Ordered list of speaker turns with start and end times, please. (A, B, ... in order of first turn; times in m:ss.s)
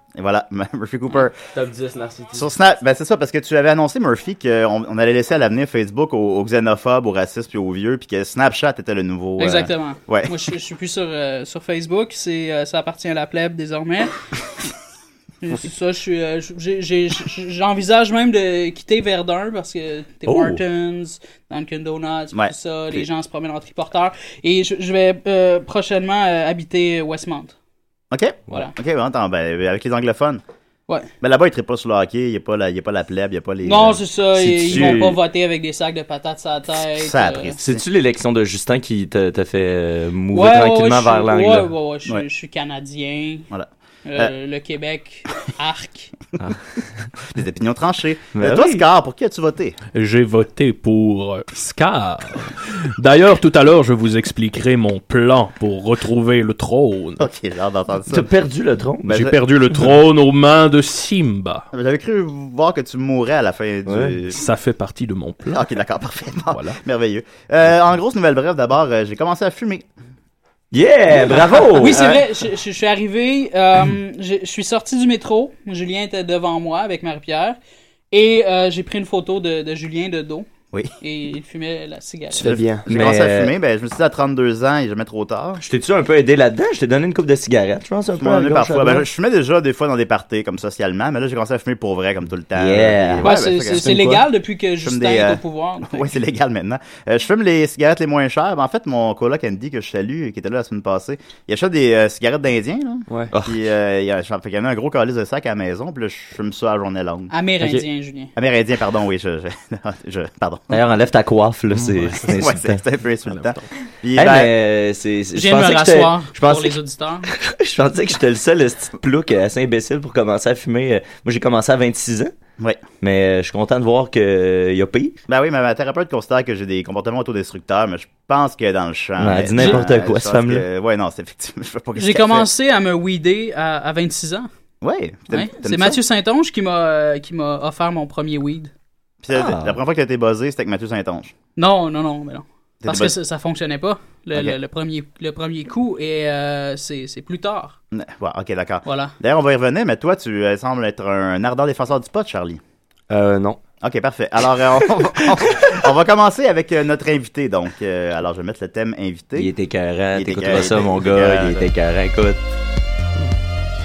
0:00.1-0:01.3 A
0:01.5-0:02.5 B
0:02.3-0:10.4 A
0:09.4-0:14.1 C
0:15.4-0:27.5 C
0:20.2-0:20.6 D
0:22.3-0:23.0 A
0:28.1-0:30.4 A
0:31.2-0:34.0 A
0:33.6-0:37.5 C
0:34.4-0:35.2 D
0:34.6-0:35.1 A
0:37.0-0:37.8 A
0:37.6-0:41.7 D
0:40.3-0:43.5 C
0:43.5-0:44.3 A
0:44.0-0:46.1 C
0:46.4-0:47.0 D
0:47.3-0:49.8 A
0:48.3-0:48.8 D
0:49.9-0:57.3 E
0:57.2-0:58.3 A
0:58.1-0:59.3 D
0:59.1-1:01.6 E
1:01.7-1:04.4 A
1:04.3-1:05.7 E
1:05.5-1:09.9 A
1:06.5-1:06.8 E
1:10.7-1:12.2 D
1:11.7-1:17.6 C
1:18.1-1:20.5 C
1:21.0-1:22.4 C
1:22.3-1:22.9 B
1:22.4-1:25.6 A
1:22.9-1:23.5 D
1:25.6-1:29.1 D
1:28.1-1:34.1 A
1:32.6-1:33.2 D
1:33.2-1:36.2 C
1:33.8-1:34.2 B
1:34.8-1:47.3 A
1:43.1-1:43.3 B
1:43.3-1:43.6 D
1:47.3-1:48.3 C
1:48.4-1:50.8 A
1:50.7-1:52.8 D
1:51.7-1:52.4 E
1:52.3-1:54.5 A
1:53.2-1:53.6 E
1:54.1-2:02.3 D
1:55.3-1:57.3 C
2:03.0-2:05.2 D
2:05.3-2:12.5 A
2:09.2-2:10.6 D
2:12.0-2:14.5 C
2:14.8-2:16.0 A
2:15.3-2:18.7 C
2:19.2-2:21.3 A
2:19.3-2:19.8 D
2:21.6-2:27.8 C
2:22.8-2:23.1 A
2:27.9-2:32.6 A
2:28.8-2:29.1 C
2:33.1-2:33.6 B
2:33.8-2:39.5 A
2:39.4-2:42.4 D
2:40.1-2:41.7 A